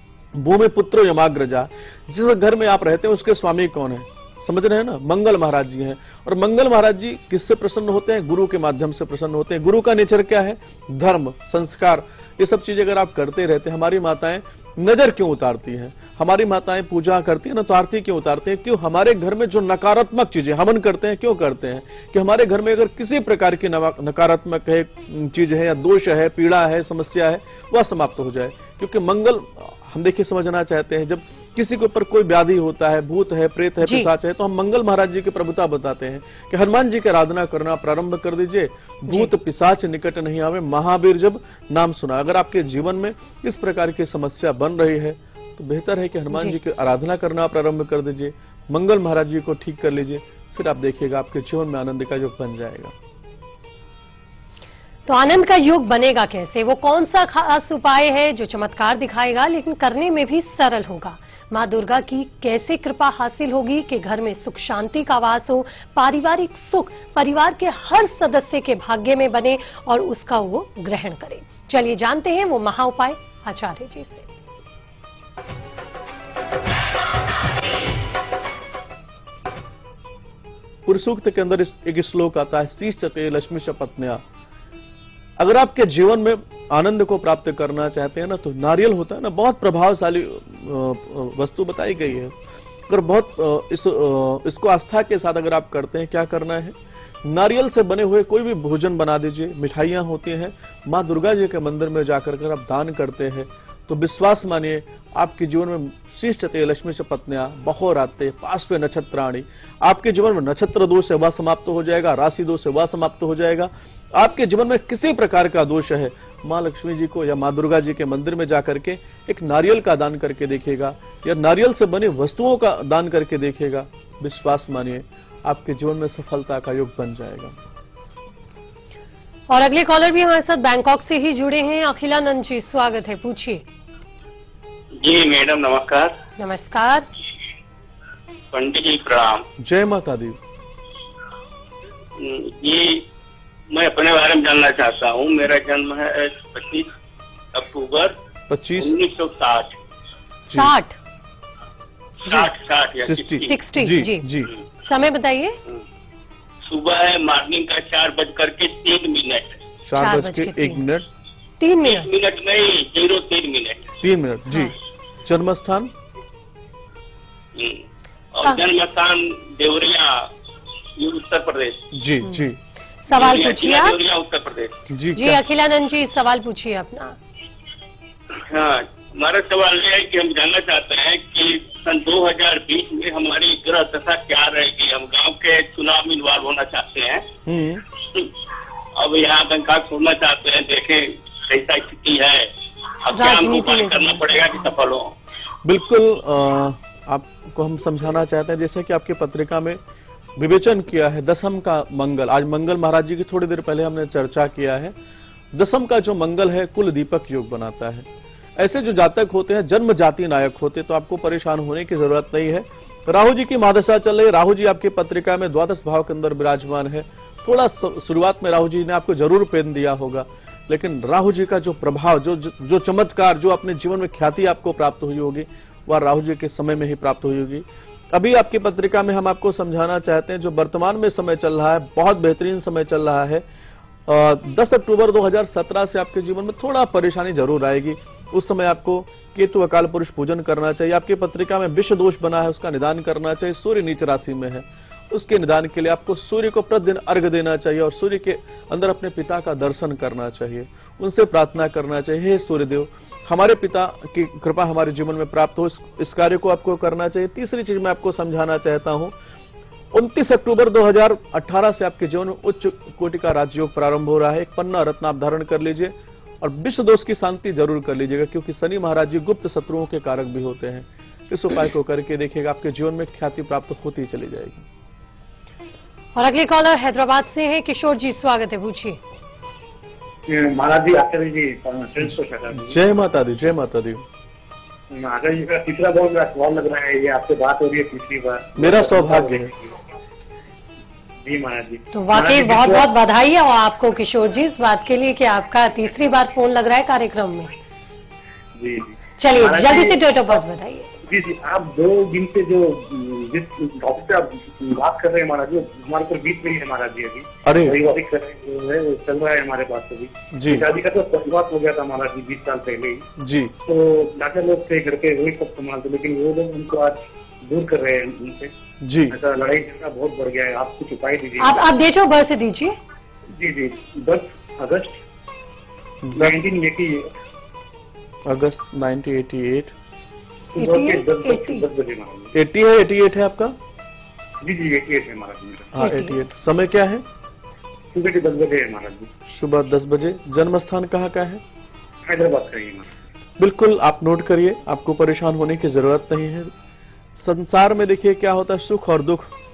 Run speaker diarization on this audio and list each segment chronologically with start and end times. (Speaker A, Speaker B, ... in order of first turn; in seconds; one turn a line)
Speaker A: 0.3-52.9
Speaker B: 33.8-34.1
Speaker B: 55.1-74.3
Speaker A: 80.9-84.2
Speaker A: 85.4-92.3
Speaker A: 92.9-127.5
Speaker B: 129.5-133.6
Speaker C: 135.0-136.1
Speaker B: 136.4-137.1
Speaker C: 138.5-139.4
Speaker A: 139.6-140.4
Speaker C: 142.2-143.0
Speaker C: 143.7-146.9
Speaker C: 147.5-148.1
Speaker A: 148.5-149.0
Speaker C: 148.8-149.8
Speaker B: 150.5-151.0
Speaker B: 152.3-152.5
Speaker C: 152.3-153.6
Speaker A: 153.0-154.5
Speaker B: 153.4-154.3
Speaker B: 154.8-155.6
Speaker C: 156.7-159.6
Speaker A: 159.8-161.1
Speaker B: 160.0-160.8
Speaker B: 161.6-162.1
Speaker C: 161.8-163.9
Speaker A: 164.0-164.7
Speaker B: 164.5-164.8
Speaker A: 165.2-165.9
Speaker C: 167.6-167.8
Speaker C: 168.3-170.3
Speaker C: 171.0-171.8
Speaker A: 171.9-172.6
Speaker B: 173.1-174.0
Speaker C: 173.1-174.8
Speaker A: 174.9-175.4
Speaker B: 175.2-177.2
Speaker C: 178.4-187.3
Speaker A: 187.5-187.8
Speaker C: 189.0-195.1
Speaker B: 193.1-194.7
Speaker A: 195.6-199.8
Speaker A: 200.4-204.9
Speaker A: 205.5-208.1
Speaker A: 208.6-233.4
Speaker A: 234.1-259.1
Speaker A: 259.9-274.6
Speaker B: 276.2-279.0
Speaker D: 280.3-282.8
Speaker A: 282.0-284.0
Speaker D: 284.9-289.7
Speaker A: 288.6-289.5
Speaker D: 291.2-292.9
Speaker B: 291.9-297.5
Speaker D: 298.6-300.4
Speaker B: 299.2-300.9
Speaker D: 301.0-313.1
Speaker A: 307.4-307.8
Speaker A: 310.3-310.7
Speaker A: 313.2-313.5
Speaker D: 313.7-318.5
Speaker A: 318.8-319.2
Speaker D: 319.1-321.7
Speaker B: 321.4-322.8
Speaker D: 323.4-325.0
Speaker A: 326.1-326.4
Speaker D: 326.1-327.1
Speaker A: 328.3-329.7
Speaker D: 330.5-332.3
Speaker B: 330.6-331.7
Speaker A: 332.3-333.6
Speaker D: 334.4-335.8
Speaker A: 335.8-337.0
Speaker B: 335.8-336.2
Speaker D: 337.9-339.1
Speaker A: 339.3-341.4
Speaker D: 342.1-342.9
Speaker A: 343.4-346.5
Speaker A: 347.2-349.3